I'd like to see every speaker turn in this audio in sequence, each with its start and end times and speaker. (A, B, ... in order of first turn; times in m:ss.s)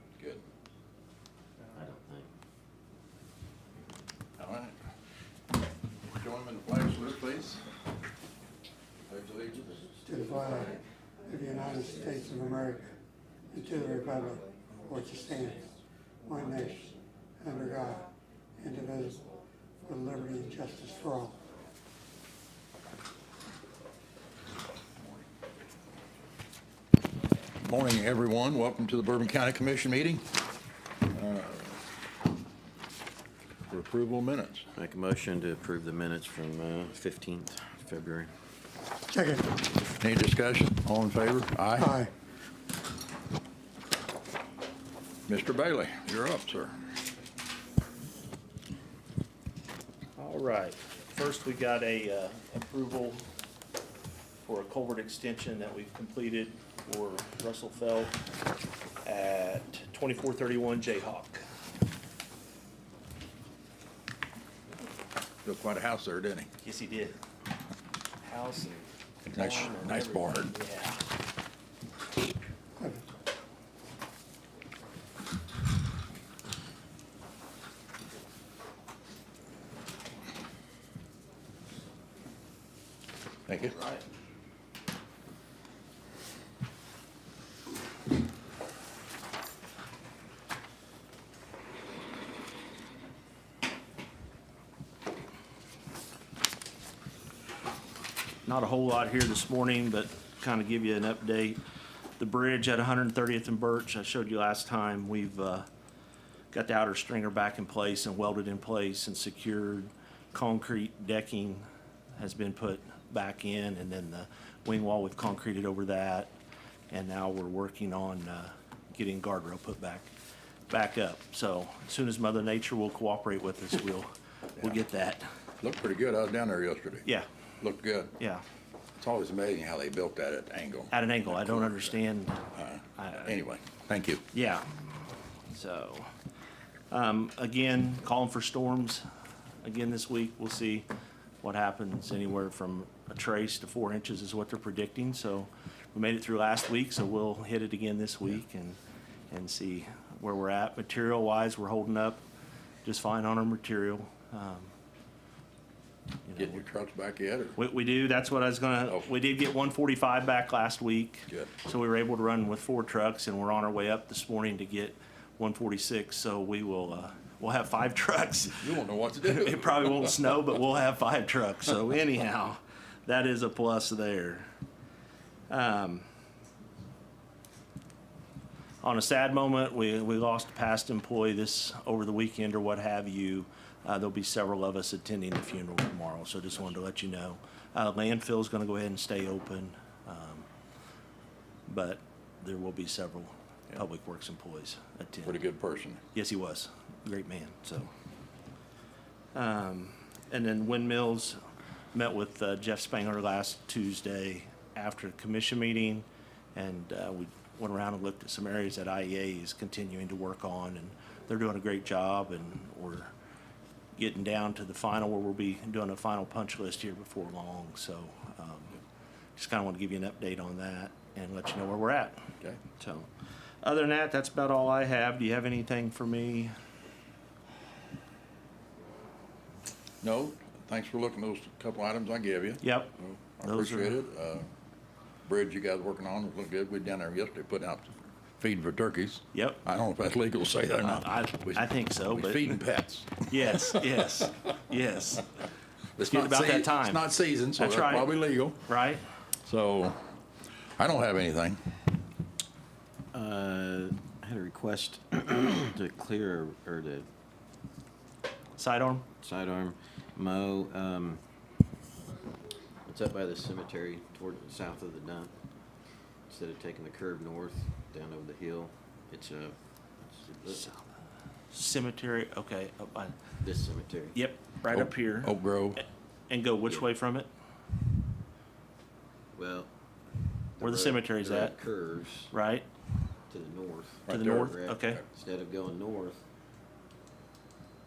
0:00.2-0:00.4 A
0:01.7-0:02.3 B
0:04.4-0:04.8 A
0:06.1-0:07.6 A
0:09.1-0:09.8 A
0:10.1-0:10.7 C
0:11.3-0:12.8 C
0:11.7-0:12.1 B
0:13.5-0:15.6 C
0:16.3-0:16.9 C
0:17.4-0:18.0 C
0:18.6-0:19.2 C
0:19.8-0:21.4 C
0:27.6-0:30.3 A
0:31.1-0:31.8 A
0:33.7-0:34.7 A
0:34.8-0:38.3 B
0:40.0-0:42.0 A
0:45.3-0:46.7 A
0:50.2-0:53.2 D
0:54.4-0:58.2 D
0:59.0-1:01.4 D
1:05.4-1:06.5 A
1:06.6-1:07.1 D
1:08.2-1:11.0 D
1:09.2-1:10.5 A
1:23.5-1:23.8 A
1:38.4-1:41.6 D
1:42.2-1:45.7 D
1:46.5-1:56.3 D
1:56.9-2:00.1 D
2:00.7-2:05.2 D
2:05.6-2:07.0 A
2:07.6-2:08.1 A
2:08.2-2:08.4 D
2:09.0-2:11.8 A
2:10.9-2:12.4 D
2:12.6-2:14.2 A
2:13.0-2:13.3 D
2:14.3-2:14.7 D
2:15.5-2:16.1 D
2:16.9-2:19.0 D
2:19.6-2:20.9 D
2:21.4-2:28.8 D
2:29.3-2:32.2 D
2:32.8-2:34.7 D
2:36.2-2:36.6 D
2:36.4-2:37.6 A
2:37.6-2:54.5 D
2:48.6-2:50.3 A
2:55.5-2:56.1 D
2:58.8-3:10.5 D
3:11.7-3:15.4 D
3:15.2-3:16.0 A
3:16.1-3:17.9 D
3:19.3-3:21.4 D
3:21.9-3:33.1 D
3:34.0-3:38.8 D
3:39.3-3:42.2 D
3:42.8-3:43.1 D
3:43.6-3:46.5 D
3:50.0-3:54.5 A
3:52.6-3:54.0 D
3:55.2-4:03.9 A
3:59.3-3:59.6 D
4:00.8-4:02.6 D
4:03.2-4:05.3 D
4:06.0-4:08.6 A
4:06.0-4:09.0 D
4:09.4-4:10.0 A
4:10.8-4:11.6 A
4:13.1-4:17.1 B
4:18.6-4:19.0 D
4:19.2-4:21.2 B
4:22.9-4:25.3 B
4:26.3-4:30.8 B
4:31.5-4:33.2 D
4:33.4-4:34.2 B
4:34.1-4:35.4 D
4:34.7-4:35.8 A
4:36.3-4:37.3 D
4:39.3-4:39.7 B
4:40.6-4:42.3 B
4:40.6-4:41.5 D
4:42.3-4:42.6 D
4:43.3-4:46.2 B
4:44.1-4:45.0 A
4:44.1-4:45.0 D